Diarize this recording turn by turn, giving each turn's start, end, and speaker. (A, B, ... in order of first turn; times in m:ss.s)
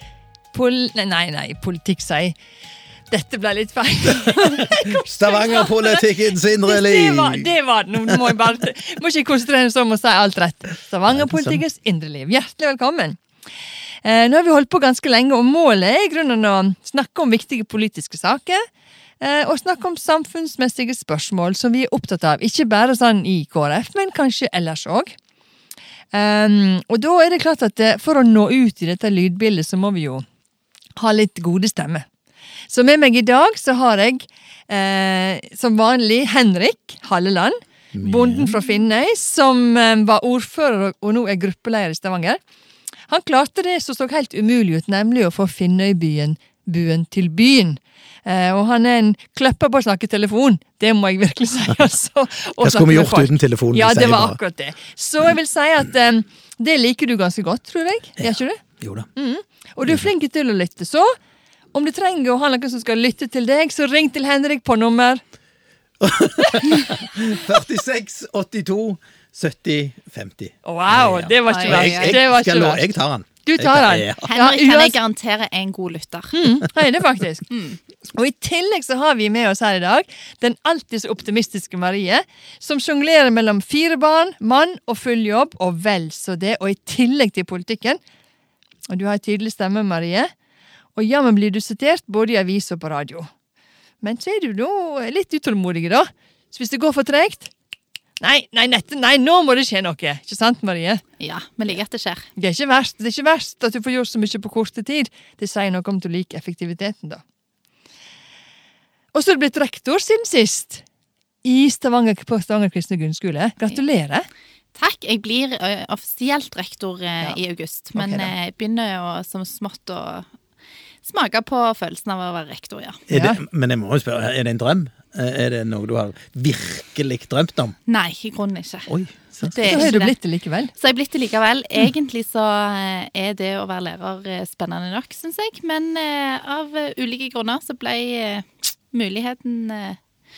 0:00.5-0:02.4 A
0:03.1-0:13.2 A
0:04.7-0:07.5 B
0:11.1-0:11.6 B
0:14.0-0:18.7 A
0:19.2-0:25.2 A
0:26.1-0:30.3 A
0:31.0-0:32.1 A
0:32.7-0:42.4 A
0:37.9-0:38.6 B
0:43.1-0:58.6 A
0:52.6-0:54.4 B
0:58.2-0:59.1 B
0:59.2-1:01.2 A
1:01.7-1:05.2 A
1:06.0-1:14.2 B
1:06.4-1:06.8 A
1:10.6-1:12.9 A
1:11.5-1:12.2 C
1:13.4-1:15.0 A
1:14.3-1:16.4 C
1:16.3-1:17.5 A
1:17.5-1:17.8 C
1:18.1-1:28.0 A
1:28.9-1:30.3 A
1:31.0-1:33.3 A
1:34.0-1:37.5 A
1:38.2-1:41.0 A
1:41.2-1:42.3 C
1:42.4-1:47.2 A
1:49.1-1:50.8 A
1:51.4-1:54.3 A
1:54.8-2:00.3 C
1:58.0-1:58.3 B
2:01.0-2:03.0 C
2:03.1-2:07.8 B
2:03.1-2:03.4 A
2:07.9-2:10.2 C
2:08.9-2:09.9 B
2:09.6-2:10.7 A
2:10.8-2:20.0 C